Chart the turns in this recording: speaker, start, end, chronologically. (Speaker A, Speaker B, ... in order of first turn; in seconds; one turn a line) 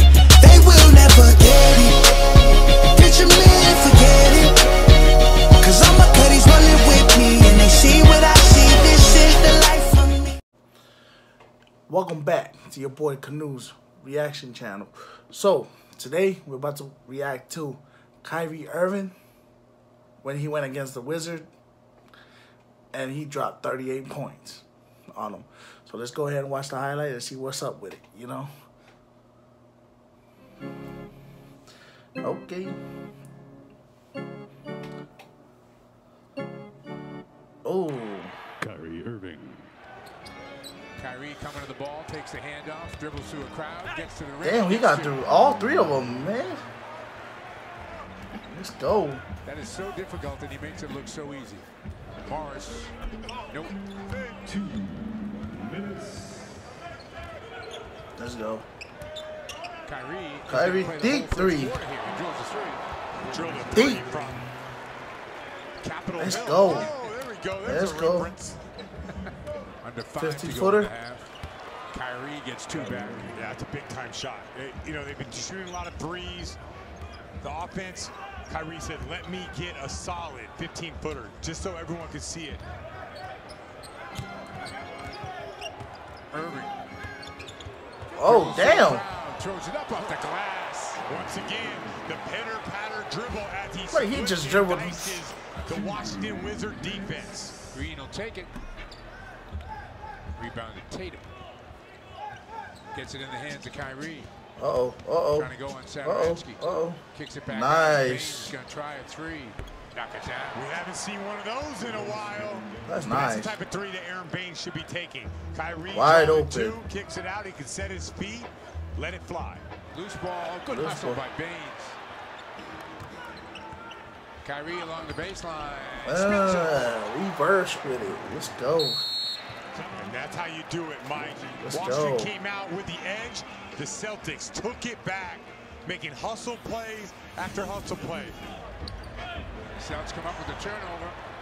Speaker A: 0.4-4.9
Speaker A: 5.6-10.4
Speaker B: 11.9-19.1
Speaker B: 20.2-21.5
Speaker B: 22.9-28.5
Speaker B: 32.2-32.8
Speaker B: 37.6-38.3
Speaker C: 38.6-39.6
Speaker D: 41.0-45.2
Speaker B: 44.4-46.6
Speaker B: 48.5-49.2
Speaker D: 49.4-51.7
Speaker D: 52.2-52.9
Speaker D: 53.5-53.8
Speaker C: 54.2-54.8
Speaker B: 58.2-58.7
Speaker D: 59.8-62.8
Speaker B: 60.5-61.8
Speaker C: 63.2-64.5
Speaker B: 63.7-64.0
Speaker C: 65.8-68.4
Speaker B: 66.2-66.9
Speaker B: 67.6-68.5
Speaker D: 69.8-71.3
Speaker B: 70.2-70.9
Speaker D: 71.9-73.3
Speaker C: 73.2-76.6
Speaker C: 77.4-82.6
Speaker D: 86.3-86.7
Speaker B: 88.2-89.1
Speaker D: 88.2-91.0
Speaker C: 91.0-97.5
Speaker B: 93.9-95.2
Speaker D: 97.7-98.5
Speaker D: 100.3-101.3
Speaker D: 102.9-104.3
Speaker B: 104.6-108.6
Speaker D: 105.3-110.7
Speaker C: 110.5-119.7
Speaker B: 112.8-113.6
Speaker B: 115.9-116.8
Speaker D: 119.9-122.0
Speaker B: 120.6-121.2
Speaker D: 124.4-126.9
Speaker B: 126.0-129.0
Speaker C: 129.7-138.4
Speaker B: 131.6-132.3
Speaker D: 139.8-141.2